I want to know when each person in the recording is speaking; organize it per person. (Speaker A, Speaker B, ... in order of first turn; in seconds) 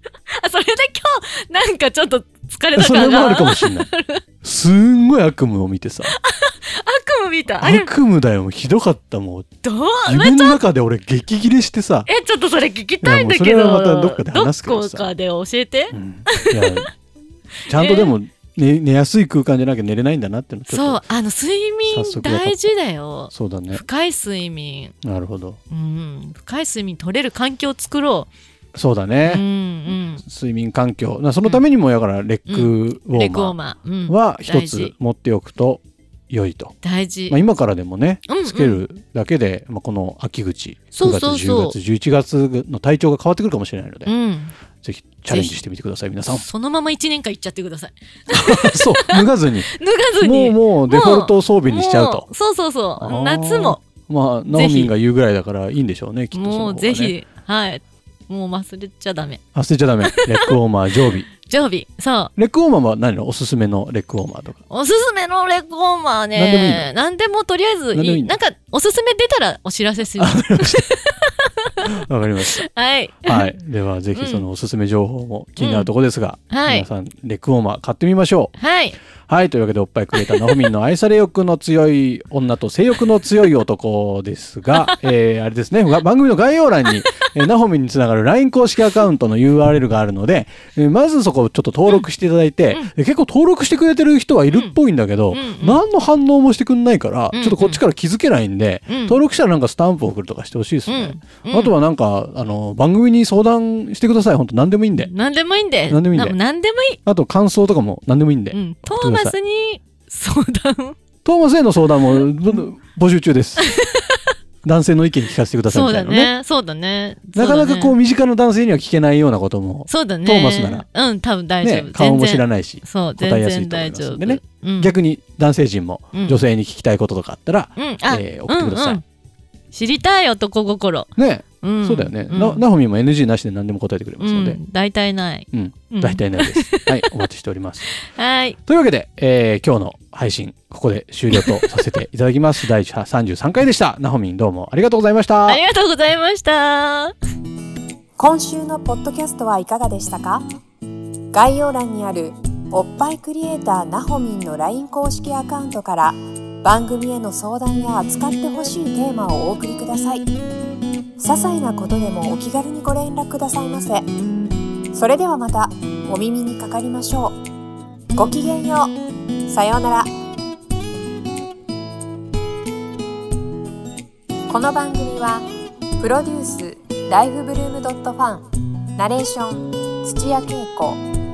Speaker A: 0.3-4.2, 6.0-7.9, 9.6-10.6, 12.1-16.9, 17.7-18.1, 20.7-24.9, 25.7-28.3, 29.2-30.2, 32.5-34.9, 36.8-37.4, 38.3-38.8, 40.9-41.8, 44.0-44.5, 45.3-45.6, 46.2-53.8, 54.5-54.9, 56.3-59.4, 60.0-62.3, 64.7-71.9, 72.5-73.5, 74.1-74.5, 75.6-75.9, 76.5-76.9, 78.6-79.0, 80.2-80.7, 84.7-85.0, 94.5-94.8, 95.3-95.8, 97.3-97.8, 98.9-99.2, 100.9-101.7, 105.0-107.0, 108.5-111.0, 112.1-112.6, 113.6-114.2, 115.7-118.0, 119.9-124.9, 126.1-126.4, 127.8-129.0, 129.7-132.7, 134.2-137.2, 137.9-138.6, 141.3-141.8, 145.5-147.1
Speaker B: 2.7-3.9, 4.4-6.1, 7.6-9.5, 10.0-12.1, 13.0-15.1, 15.9-16.9, 17.7-21.0, 21.9-22.6, 23.3-23.9, 25.0-25.6, 28.8-36.8, 37.3-44.1, 44.8-46.5, 48.3-52.3, 53.0-57.1, 59.5-61.3, 62.4-64.6, 66.3-66.9, 67.9-68.4, 70.2-70.9, 71.9-72.7, 73.2-78.5, 79.2-105.1, 105.9-106.4, 107.0-109.4, 111.2-113.6, 114.6-116.3, 117.3-120.9, 121.6-129.0, 131.2-134.6, 135.5-137.9, 138.7-145.6
Speaker C: 148.2-150.4, 151.3-160.3, 161.2-164.1, 164.9-167.4, 168.2-168.9, 169.5-170.1, 174.5-175.5, 176.0-178.4, 179.0-181.0